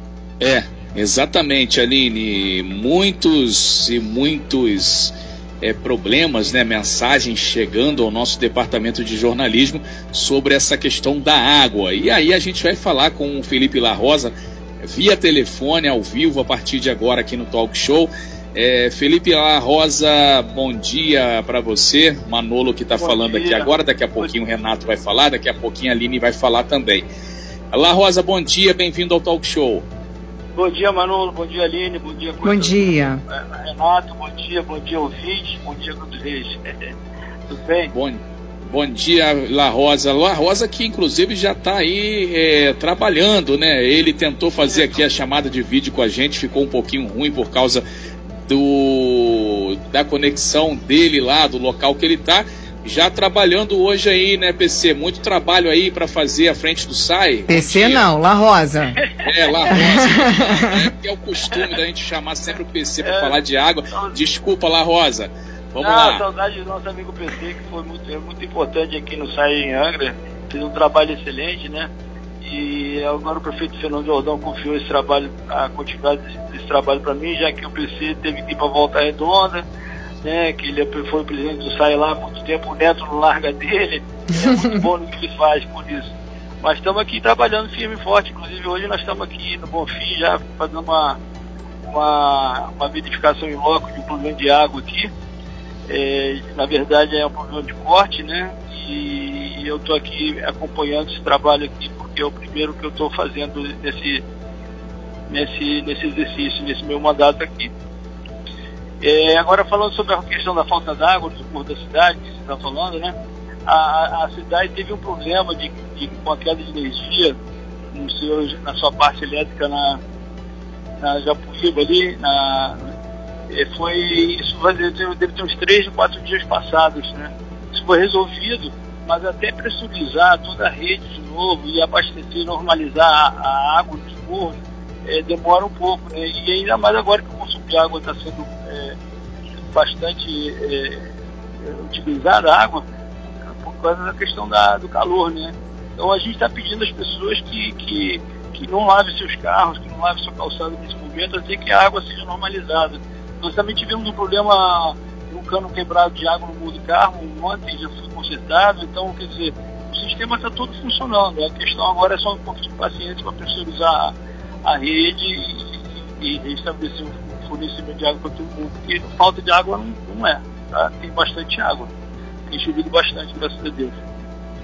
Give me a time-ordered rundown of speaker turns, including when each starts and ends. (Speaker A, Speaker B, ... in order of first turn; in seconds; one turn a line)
Speaker A: 0.4-27.1
Speaker B: 23.0-24.3
Speaker A: 27.7-29.8
Speaker B: 30.6-36.9
Speaker C: 32.5-33.2
Speaker B: 37.5-37.9
Speaker A: 37.9-47.8
Speaker A: 48.5-58.0
Speaker C: 57.5-59.0
Speaker B: 59.0-59.7
Speaker A: 59.2-66.2
Speaker C: 59.7-60.9
Speaker B: 63.0-63.4
Speaker B: 65.8-71.9
Speaker B: 72.4-79.6
Speaker B: 80.2-91.2
Speaker B: 91.9-95.1
Speaker B: 95.9-104.2
Speaker B: 105.3-107.7
Speaker B: 109.0-113.1
Speaker B: 113.7-117.4
Speaker B: 117.9-120.0
Speaker B: 121.0-122.8
Speaker B: 123.5-139.0
Speaker B: 139.7-141.1
Speaker B: 141.7-142.8
Speaker B: 143.6-164.1
Speaker B: 164.7-171.9
Speaker B: 172.5-174.0